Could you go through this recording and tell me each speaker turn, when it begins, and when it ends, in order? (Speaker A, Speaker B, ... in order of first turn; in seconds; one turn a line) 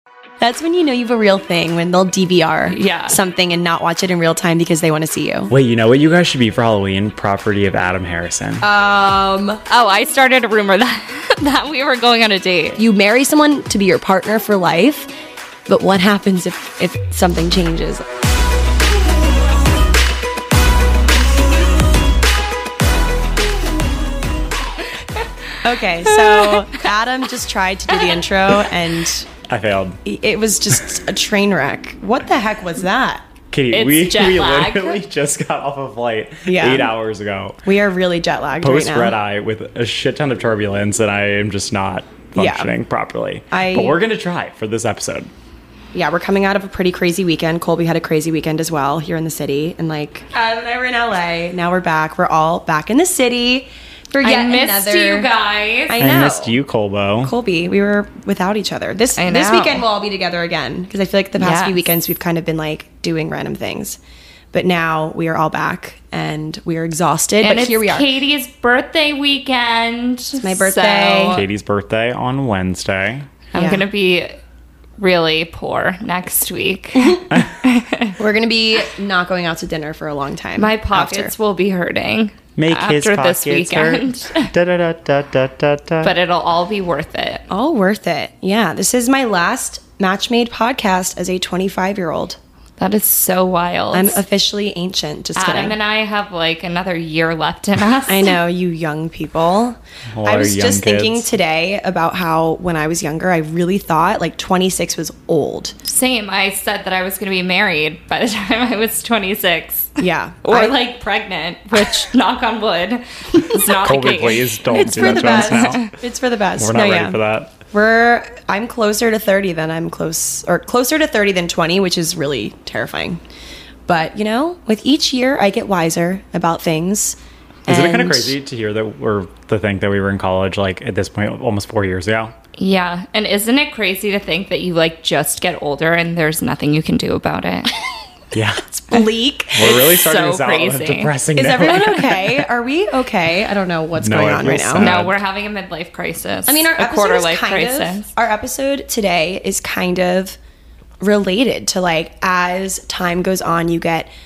Speaker A: 0.4-5.5
Speaker B: 2.7-3.2
Speaker C: 5.5-8.7
Speaker A: 8.6-9.6
Speaker B: 9.7-12.8
Speaker A: 12.8-15.1
Speaker A: 15.7-18.1
Speaker A: 25.6-29.3
Speaker B: 26.2-26.6
Speaker C: 29.5-30.0
Speaker A: 30.1-33.3
Speaker C: 33.5-37.6
Speaker B: 33.7-35.0
Speaker A: 36.5-36.9
Speaker A: 37.6-39.2
Speaker C: 38.6-45.3
Speaker A: 42.4-42.7
Speaker A: 43.5-44.0
Speaker A: 45.9-55.3
Speaker B: 54.2-56.0
Speaker A: 55.9-56.6
Speaker C: 56.0-57.3
Speaker A: 57.2-64.0
Speaker B: 59.2-59.8
Speaker B: 61.4-61.9
Speaker A: 64.5-68.1
Speaker B: 67.4-71.4
Speaker A: 70.4-71.4
Speaker C: 71.3-73.3
Speaker B: 73.5-74.3
Speaker A: 73.5-73.8
Speaker B: 75.0-78.2
Speaker A: 78.2-81.3
Speaker B: 80.6-84.5
Speaker C: 82.6-86.1
Speaker B: 86.0-87.4
Speaker A: 87.5-92.4
Speaker B: 92.8-94.2
Speaker A: 93.9-95.8
Speaker B: 95.4-98.3
Speaker A: 98.1-105.8
Speaker C: 100.1-101.3
Speaker B: 105.9-115.8
Speaker A: 110.0-110.8
Speaker A: 113.3-113.7
Speaker C: 113.8-115.9
Speaker A: 114.7-117.2
Speaker C: 116.6-117.6
Speaker A: 117.7-123.2
Speaker A: 123.9-128.3
Speaker C: 127.7-132.3
Speaker B: 132.6-137.7
Speaker C: 138.3-138.7
Speaker A: 138.7-139.9
Speaker C: 139.5-142.5
Speaker B: 139.6-141.2
Speaker A: 141.4-144.9
Speaker C: 144.0-145.2
Speaker B: 144.8-148.1
Speaker A: 146.5-150.4
Speaker A: 151.0-154.1